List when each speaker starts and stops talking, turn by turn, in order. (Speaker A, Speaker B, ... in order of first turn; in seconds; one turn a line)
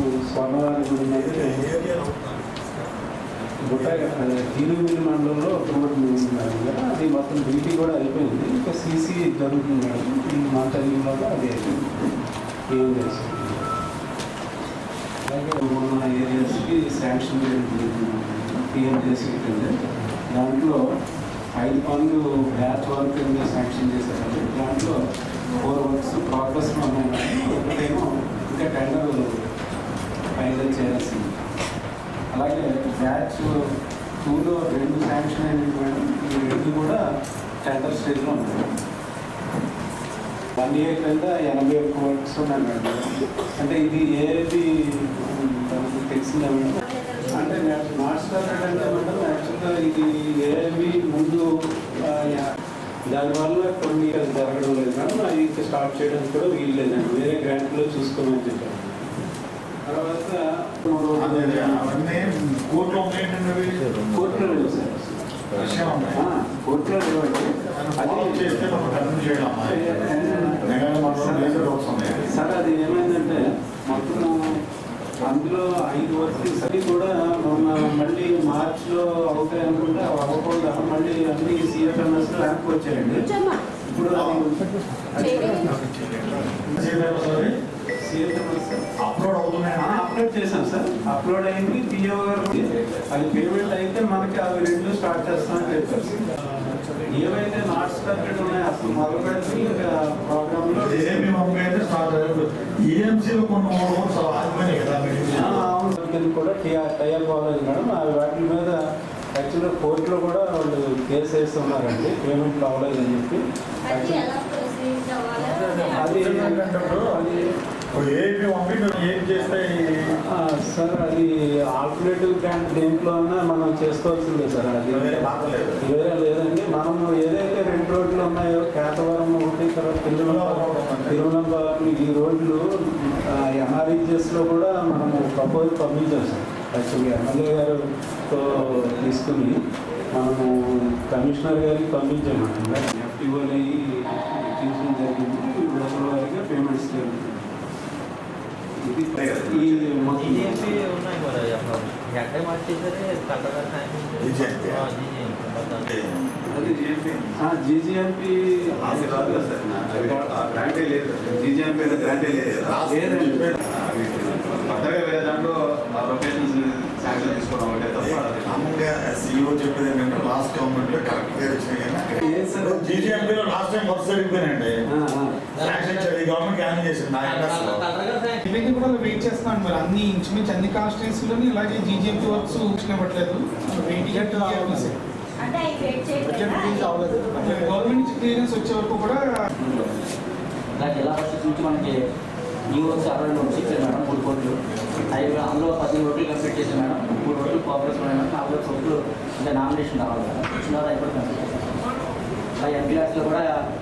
Speaker A: 0.3-1.7
Speaker B: 1.1-2.9
Speaker A: 3.6-11.9
Speaker B: 3.7-4.3
Speaker A: 12.7-13.6
Speaker A: 15.3-19.7
Speaker A: 20.3-20.8
Speaker A: 21.6-24.9
Speaker A: 25.6-29.2
Speaker A: 30.4-31.5
Speaker A: 32.3-33.5
Speaker A: 34.2-37.0
Speaker A: 37.6-38.7
Speaker A: 40.6-43.1
Speaker A: 43.6-44.6
Speaker A: 45.2-51.5
Speaker C: 46.8-47.6
Speaker A: 52.1-52.5
Speaker A: 53.1-59.1
Speaker A: 59.9-61.9
Speaker B: 61.2-63.8
Speaker D: 63.7-64.5
Speaker A: 64.1-65.2
Speaker B: 65.5-66.2
Speaker A: 66.1-68.7
Speaker B: 67.7-69.8
Speaker A: 69.6-71.6
Speaker B: 70.6-72.2
Speaker A: 72.3-74.3
Speaker A: 75.2-83.3
Speaker C: 83.2-83.6
Speaker A: 83.9-84.6
Speaker B: 84.1-84.4
Speaker C: 85.2-85.7
Speaker A: 85.2-85.6
Speaker B: 85.6-87.5
Speaker A: 86.7-87.5
Speaker A: 88.0-88.8
Speaker B: 89.0-90.0
Speaker A: 89.8-96.2
Speaker A: 97.1-101.5
Speaker B: 100.7-105.7
Speaker A: 105.3-108.8
Speaker A: 109.3-114.3
Speaker C: 113.8-116.8
Speaker B: 115.3-117.1
Speaker A: 116.0-117.4
Speaker B: 117.9-119.9
Speaker A: 120.5-125.2
Speaker B: 124.9-125.8
Speaker A: 125.8-137.8
Speaker B: 130.2-131.2
Speaker A: 138.3-139.6
Speaker A: 140.1-140.5
Speaker A: 141.1-147.5
Speaker A: 148.8-150.8
Speaker E: 149.2-149.9
Speaker D: 150.1-156.1
Speaker B: 154.2-154.9
Speaker B: 155.8-156.2
Speaker A: 156.5-156.8
Speaker A: 157.4-163.6
Speaker E: 158.8-162.7
Speaker B: 162.6-163.6
Speaker E: 163.7-168.6
Speaker B: 168.0-172.1
Speaker A: 172.1-173.4
Speaker C: 172.2-172.5
Speaker B: 172.6-174.8
Speaker A: 174.9-175.4
Speaker D: 175.6-176.1
Speaker B: 175.6-177.9
Speaker D: 177.2-178.4
Speaker F: 178.4-185.0
Speaker A: 184.1-184.9
Speaker C: 185.4-187.6
Speaker F: 187.3-189.2
Speaker G: 189.6-190.0
Speaker G: 190.8-191.9
Speaker G: 192.7-194.5
Speaker G: 195.1-201.5
Speaker G: 202.6-203.5